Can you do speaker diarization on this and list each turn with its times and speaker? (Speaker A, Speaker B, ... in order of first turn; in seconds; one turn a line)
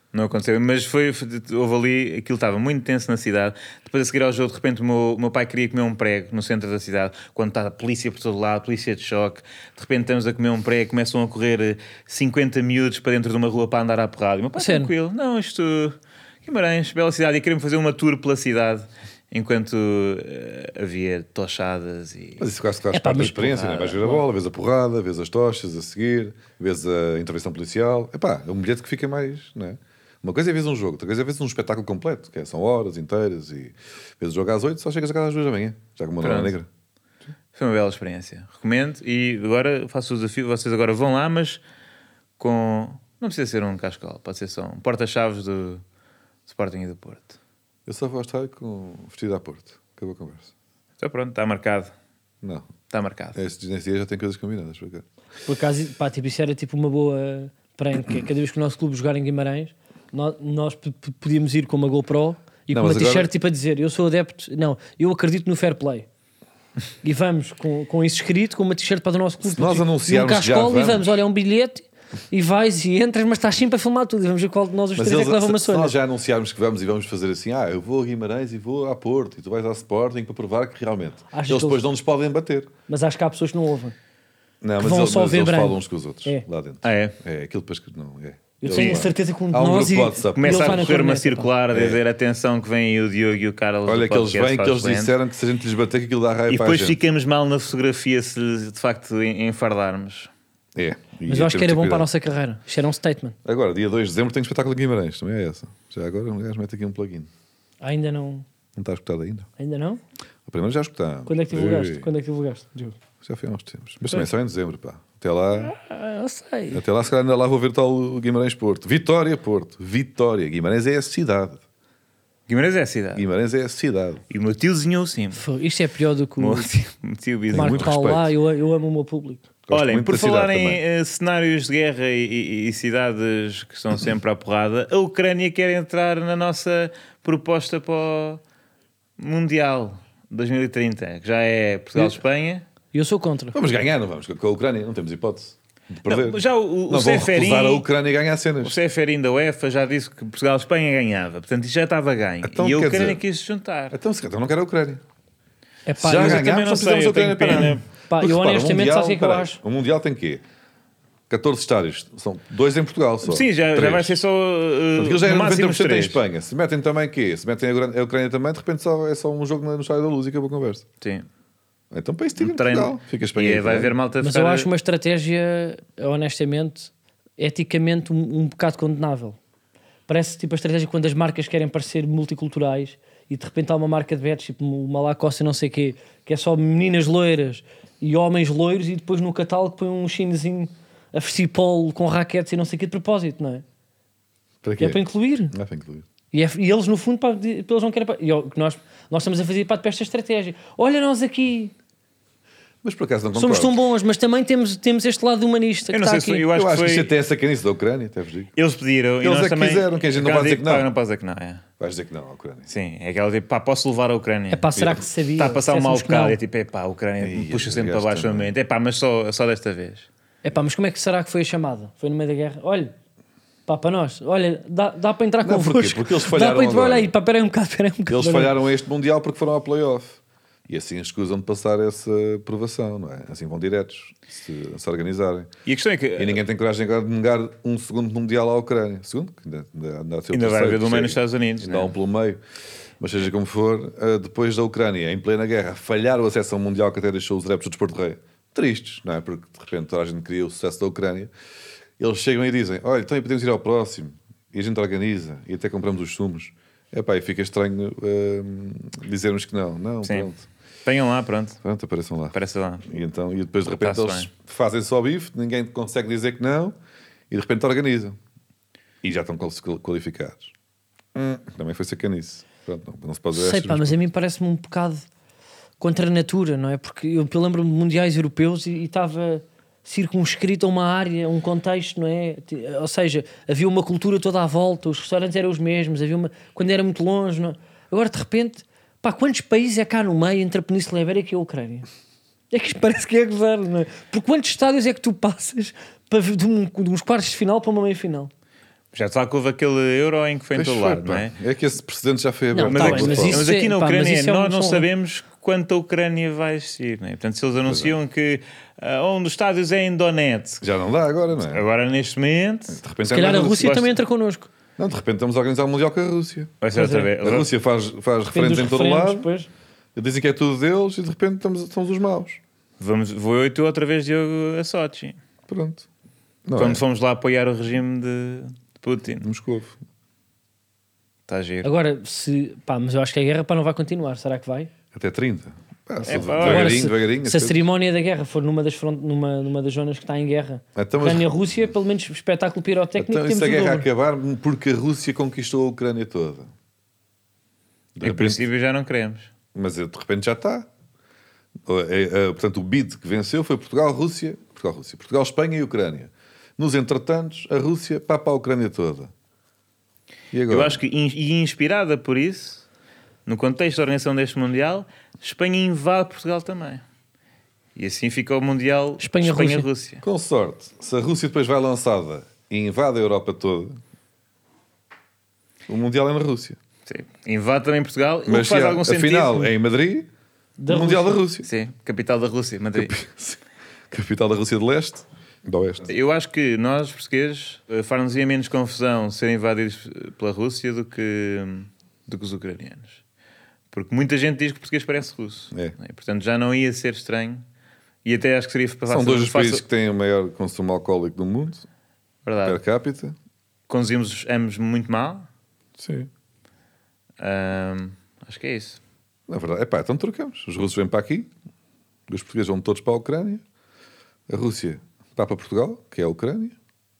Speaker A: 0.1-22.4
Speaker B: 14.6-14.9
Speaker C: 22.4-36.7
Speaker B: 22.9-24.1
Speaker A: 36.2-36.5
Speaker A: 37.5-41.6
Speaker A: 42.4-45.8
Speaker A: 46.5-47.4
Speaker C: 47.9-50.5
Speaker A: 51.0-51.9
Speaker C: 52.4-52.7
Speaker A: 52.9-53.4
Speaker C: 53.4-55.0
Speaker B: 55.5-66.1
Speaker C: 62.7-63.3
Speaker B: 67.0-75.9
Speaker C: 69.4-71.1
Speaker C: 75.0-82.7
Speaker B: 81.3-81.8
Speaker B: 82.9-84.0
Speaker C: 84.6-90.9
Speaker B: 84.8-86.4
Speaker A: 86.8-87.2
Speaker B: 88.6-91.5
Speaker A: 88.7-89.0
Speaker A: 90.4-95.2
Speaker C: 91.7-92.0
Speaker C: 93.9-97.0
Speaker A: 96.5-100.3
Speaker C: 100.8-102.1
Speaker B: 101.3-103.4
Speaker C: 103.5-107.3
Speaker B: 107.8-108.5
Speaker C: 108.8-109.5
Speaker B: 109.6-110.0
Speaker C: 110.5-112.1
Speaker B: 111.3-113.0
Speaker C: 113.2-115.7
Speaker B: 115.6-116.8
Speaker C: 116.7-121.6
Speaker A: 122.5-123.2
Speaker C: 123.2-124.2
Speaker A: 124.3-125.4
Speaker B: 125.3-126.7
Speaker A: 126.4-128.0
Speaker C: 127.5-128.3
Speaker B: 127.5-129.4
Speaker C: 129.7-130.8
Speaker A: 129.7-138.4
Speaker A: 139.2-142.6
Speaker B: 142.9-143.6
Speaker C: 143.5-146.4
Speaker A: 146.1-147.9
Speaker C: 146.9-148.8
Speaker A: 148.6-153.9
Speaker C: 152.4-153.2
Speaker C: 153.9-155.0
Speaker B: 155.9-156.5
Speaker C: 156.0-160.4
Speaker A: 156.1-157.8
Speaker B: 158.1-159.6
Speaker C: 161.3-164.2
Speaker A: 163.2-166.2
Speaker C: 165.0-170.9
Speaker A: 171.0-171.3
Speaker C: 171.9-173.9
Speaker A: 172.4-174.7
Speaker B: 174.2-179.4
Speaker B: 180.1-193.6
Speaker C: 194.6-196.1
Speaker B: 194.8-195.5
Speaker B: 196.3-201.7
Speaker C: 202.8-203.8
Speaker B: 203.3-206.5
Speaker A: 205.9-207.1
Speaker C: 206.5-208.5
Speaker A: 208.6-211.6
Speaker C: 209.2-210.9
Speaker C: 211.8-212.7
Speaker A: 212.7-214.8
Speaker B: 214.5-216.4
Speaker C: 214.8-215.0
Speaker A: 215.4-220.1
Speaker C: 217.2-218.5
Speaker B: 220.4-222.9
Speaker B: 223.7-228.5
Speaker C: 225.4-227.1
Speaker C: 228.1-235.5
Speaker A: 235.7-236.4
Speaker C: 236.2-242.4
Speaker A: 240.3-241.9
Speaker C: 243.0-251.3
Speaker C: 252.0-260.4
Speaker A: 260.0-260.3
Speaker A: 260.9-261.6
Speaker C: 261.6-266.8
Speaker A: 262.3-262.9
Speaker A: 263.7-264.3
Speaker C: 267.3-268.2
Speaker C: 269.0-270.5
Speaker C: 271.1-274.0
Speaker B: 273.3-275.1
Speaker B: 275.8-291.9
Speaker B: 292.5-298.3
Speaker A: 298.9-301.3
Speaker C: 300.5-303.5
Speaker B: 302.5-304.9
Speaker A: 302.7-310.6
Speaker C: 307.7-307.9
Speaker C: 310.6-311.6
Speaker A: 311.4-312.8
Speaker C: 312.7-313.7
Speaker B: 313.1-314.5
Speaker A: 313.5-313.9
Speaker C: 314.8-316.6
Speaker A: 316.6-317.5
Speaker B: 316.7-317.1
Speaker C: 317.2-319.3
Speaker B: 318.3-319.5
Speaker C: 319.9-322.4
Speaker A: 322.8-325.2
Speaker C: 325.5-325.9
Speaker C: 326.5-326.8
Speaker A: 326.6-329.3
Speaker C: 329.2-329.8
Speaker A: 331.3-331.7
Speaker B: 331.6-334.7
Speaker C: 334.9-337.6
Speaker B: 336.0-343.9
Speaker A: 336.1-336.9
Speaker C: 340.8-341.6
Speaker C: 343.0-346.5
Speaker C: 348.0-348.4
Speaker A: 348.0-349.3
Speaker C: 349.6-350.7
Speaker C: 351.7-359.1
Speaker C: 360.3-360.8
Speaker A: 360.5-362.6
Speaker A: 363.3-366.8
Speaker A: 367.8-370.0
Speaker B: 369.0-369.7
Speaker C: 370.0-373.8
Speaker C: 375.7-376.6
Speaker A: 376.9-379.5
Speaker C: 378.3-380.1
Speaker B: 380.6-381.2
Speaker C: 380.7-381.5
Speaker A: 381.4-382.9
Speaker C: 382.8-383.4
Speaker C: 383.9-385.9
Speaker A: 385.9-393.0
Speaker A: 393.7-397.4
Speaker A: 398.1-399.6
Speaker C: 398.9-401.7
Speaker A: 402.2-402.6
Speaker C: 402.4-403.1
Speaker A: 403.7-405.3
Speaker C: 405.8-406.1
Speaker A: 407.2-408.8
Speaker C: 409.3-411.3
Speaker C: 412.1-413.4
Speaker C: 414.3-416.6